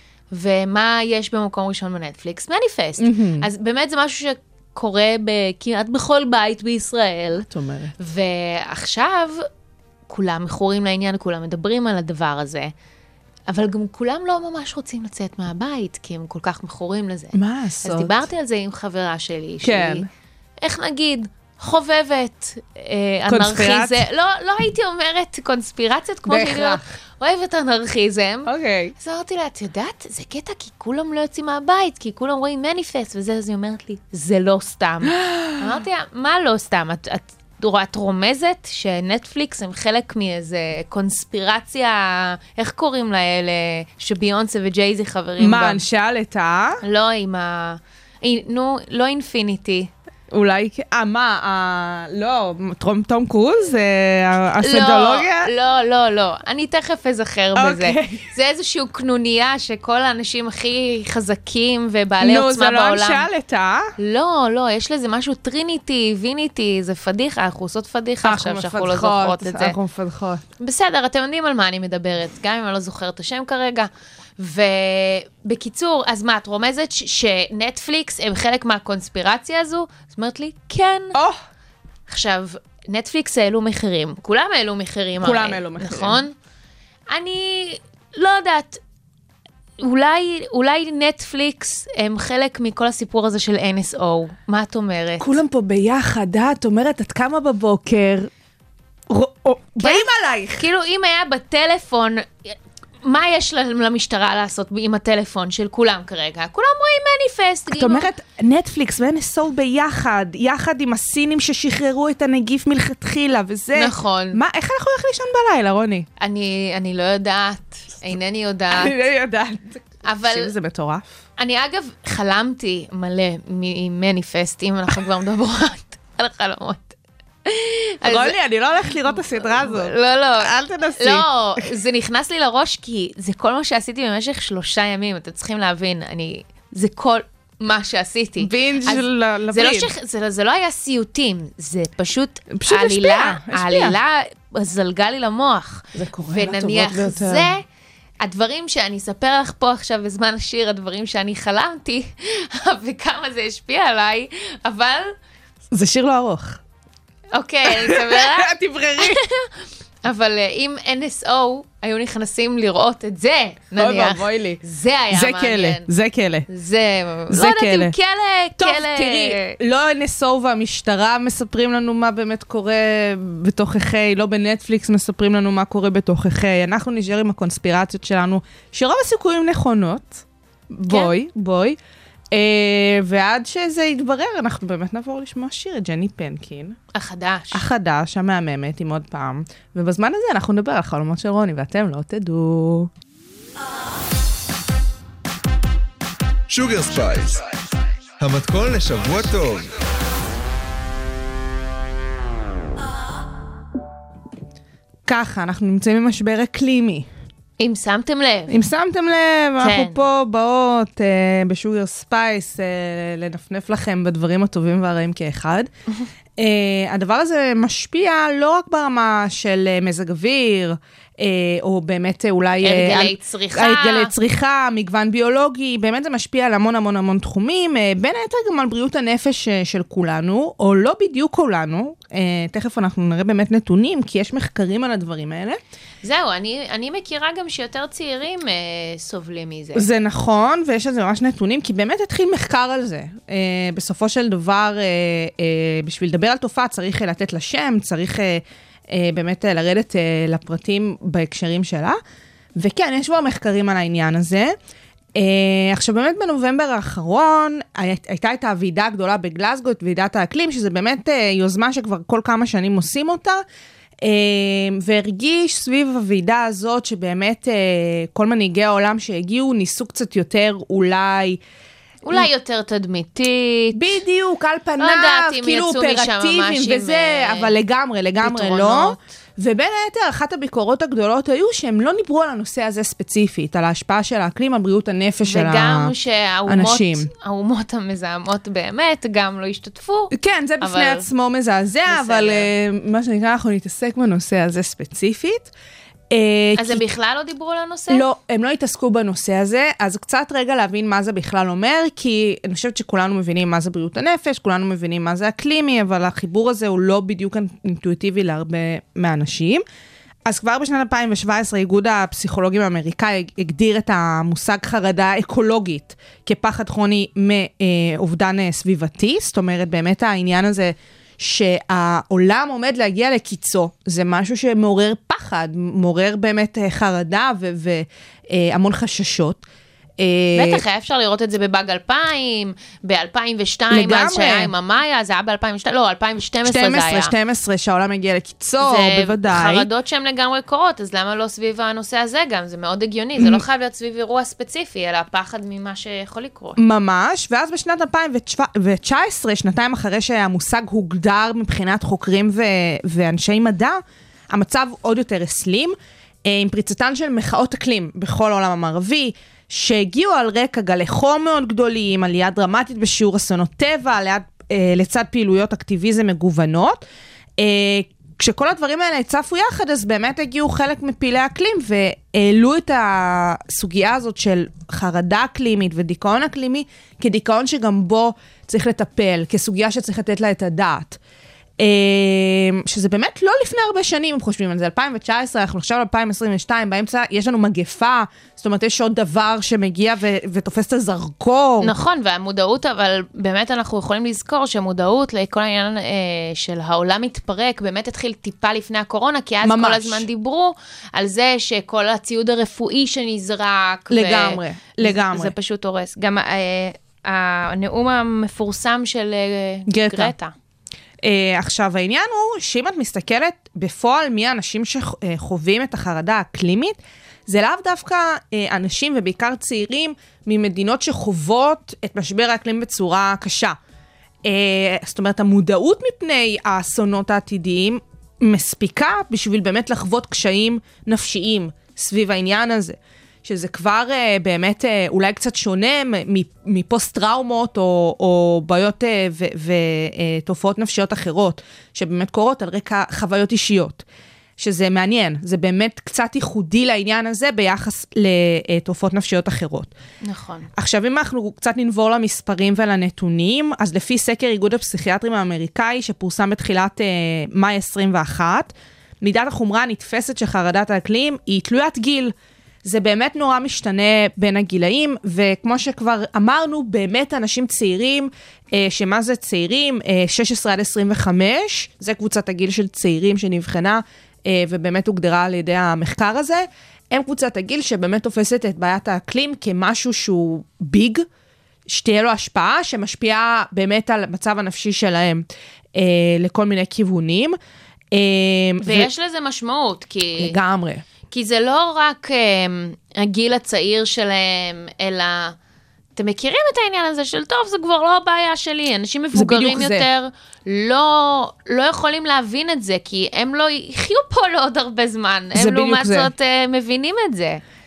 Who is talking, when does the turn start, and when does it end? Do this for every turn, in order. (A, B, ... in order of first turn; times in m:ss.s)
0:00.3-0:07.5 A
0:03.0-0:03.5 B
0:07.5-0:07.9 B
0:08.0-0:09.4 A
0:10.1-0:12.7 A
0:13.5-0:20.0 A
0:17.3-0:18.2 B
0:19.6-0:20.1 B
0:20.6-0:45.8 A
0:23.3-0:24.0 B
0:26.3-0:26.8 B
0:28.5-0:28.9 B
0:35.0-0:35.7 B
0:45.4-0:46.8 B
0:46.8-0:49.9 A
0:50.3-0:55.5 B
0:54.6-1:03.3 A
0:57.5-0:58.3 B
1:02.2-1:03.9 B
1:04.0-1:09.8 A
1:08.2-1:10.4 B
1:10.6-1:21.2 A
1:21.1-1:21.4 B
1:22.1-1:26.3 A
1:25.2-1:26.2 B
1:27.1-1:28.8 A
1:29.8-1:35.4 A
1:35.2-1:38.3 B
1:39.1-1:40.7 B
1:39.8-1:48.1 A
1:47.7-1:56.1 B
1:53.8-1:54.4 A
1:56.2-1:58.9 A
1:58.7-2:01.1 B
2:00.0-2:00.5 A
2:01.4-2:08.4 A
2:08.0-2:11.6 B
2:09.0-2:27.6 A
2:18.4-2:19.9 B
2:22.5-2:24.0 B
2:25.9-2:27.5 B
2:28.2-2:35.1 A
2:35.7-2:36.6 B
2:37.3-2:45.9 A
2:37.7-2:39.2 B
2:43.8-2:44.6 B
2:45.1-2:46.5 B
2:46.5-2:49.6 A
2:47.3-2:47.9 B
2:48.6-3:01.8 B
3:00.9-3:01.1 A
3:02.3-3:06.8 B
3:06.9-3:07.6 A
3:07.5-3:12.9 B
3:16.5-3:17.4 C
3:18.2-3:19.7 C
3:25.0-3:27.1 B
3:27.6-3:28.7 A
3:28.5-3:35.7 B
3:29.6-3:30.0 A
3:36.4-3:55.6 B
3:42.6-3:44.1 A
3:56.0-3:59.9 A
3:59.8-4:12.0 B
4:12.6-4:14.6 B
4:15.2-4:23.4 B
4:24.0-4:31.4 B
4:32.0-4:34.0 A
4:33.7-4:45.9 B
4:34.8-4:37.5 A
4:38.2-4:39.0 A
4:45.2-4:51.1 A
4:46.5-4:47.1 B
4:50.1-4:55.5 B
4:51.9-4:52.5 A
4:56.1-4:56.8 B
4:56.6-4:58.1 A
4:57.9-5:09.6 B
5:10.2-5:29.4 B
5:30.0-5:30.6 B
5:30.4-5:37.1 A
5:33.7-5:34.5 B
5:36.4-5:39.7 B
5:38.6-5:46.6 A
5:46.6-5:55.8 B
5:56.2-6:06.8 B
6:07.4-6:21.0 B
6:21.6-6:31.7 B
6:31.6-6:50.3 A
6:39.4-6:40.1 B
6:43.9-6:45.3 B
6:49.7-6:50.1 B
6:51.0-6:56.8 B
6:57.3-7:03.6 B
7:04.2-7:23.8 B
7:24.4-7:29.7 B
7:30.0-7:30.5 A
7:30.6-8:01.1 B
8:01.7-8:05.2 B
8:05.8-8:07.4 B
8:07.9-8:08.9 B
8:08.6-8:10.4 A
8:10.2-8:10.8 B
8:11.1-8:15.4 A
8:16.0-8:27.4 A
8:19.1-8:19.9 B
8:25.4-8:26.1 B